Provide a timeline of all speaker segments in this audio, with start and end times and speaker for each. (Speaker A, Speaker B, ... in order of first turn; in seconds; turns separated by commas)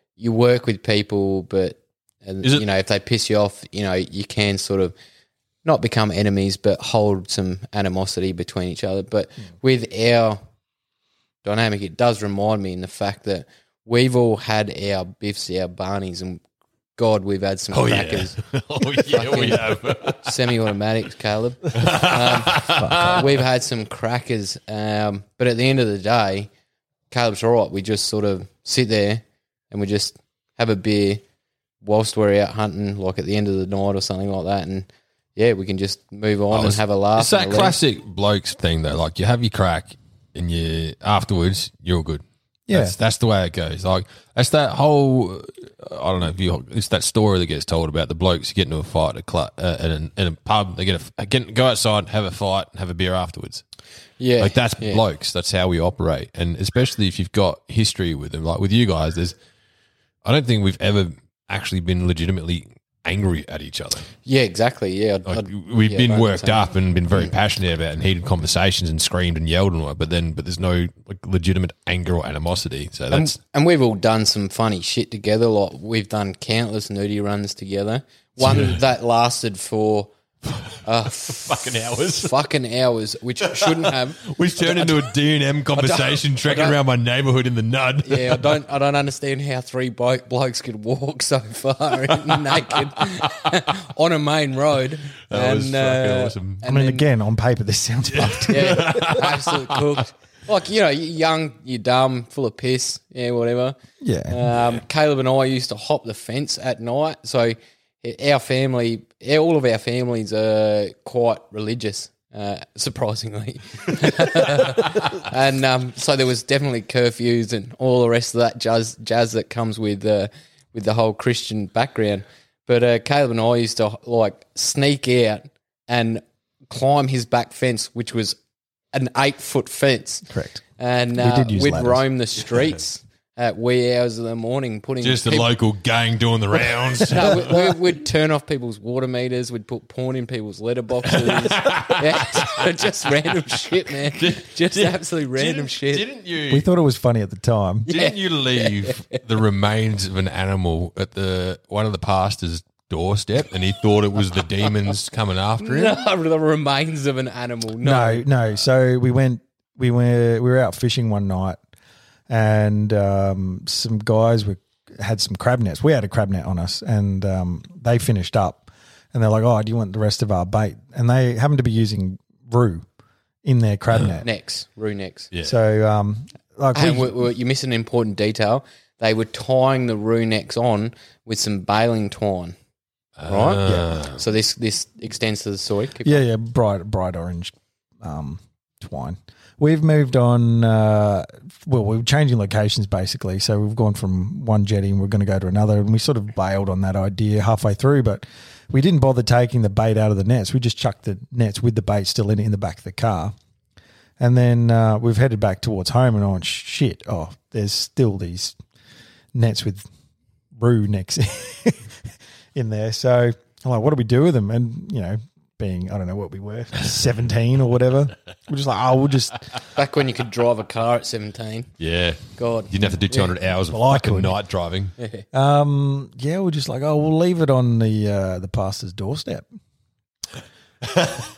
Speaker A: 0.2-4.9, Speaker A: 5.6-10.4, Speaker A: 11.4-16.4, Speaker A: 17.0-18.4, Speaker B: 17.7-20.5, Speaker A: 19.0-26.5, Speaker B: 21.7-23.3, Speaker C: 22.8-23.2, Speaker A: 27.1-31.2, Speaker A: 31.8-37.8, Speaker B: 36.5-53.6, Speaker C: 42.7-43.0, Speaker A: 54.2-55.0, Speaker B: 54.4-59.4, Speaker B: 60.2-64.1, Speaker A: 64.2-67.3, Speaker B: 65.3-73.4, Speaker A: 73.1-80.1, Speaker B: 78.4-78.8, Speaker B: 80.5-82.3, Speaker A: 80.8-85.1, Speaker B: 83.4-88.6, Speaker A: 85.8-86.8, Speaker A: 88.0-97.0, Speaker B: 95.3-96.6, Speaker C: 96.7-99.2, Speaker B: 98.1-99.8, Speaker A: 98.5-103.8, Speaker C: 104.0-104.4, Speaker A: 104.3-128.4, Speaker A: 128.9-130.3, Speaker C: 130.3-130.6, Speaker A: 130.8-135.5, Speaker C: 131.2-132.0, Speaker B: 135.0-137.7, Speaker A: 137.1-146.1, Speaker B: 141.1-142.6, Speaker B: 144.1-146.7, Speaker C: 146.5-147.9, Speaker A: 147.9-149.2, Speaker B: 147.9-156.0, Speaker A: 155.6-158.3, Speaker C: 157.8-161.6, Speaker C: 162.3-172.9, Speaker C: 173.4-174.3, Speaker A: 174.2-175.3, Speaker C: 175.4-177.2, Speaker A: 176.8-182.6, Speaker B: 183.2-184.2, Speaker A: 183.3-186.2, Speaker C: 186.0-203.3, Speaker C: 204.2-208.6, Speaker C: 209.3-209.9, Speaker C: 210.6-219.5, Speaker A: 219.8-221.7, Speaker B: 221.8-224.9, Speaker A: 222.4-223.2, Speaker C: 223.7-224.4, Speaker A: 225.0-225.2, Speaker C: 225.3-229.5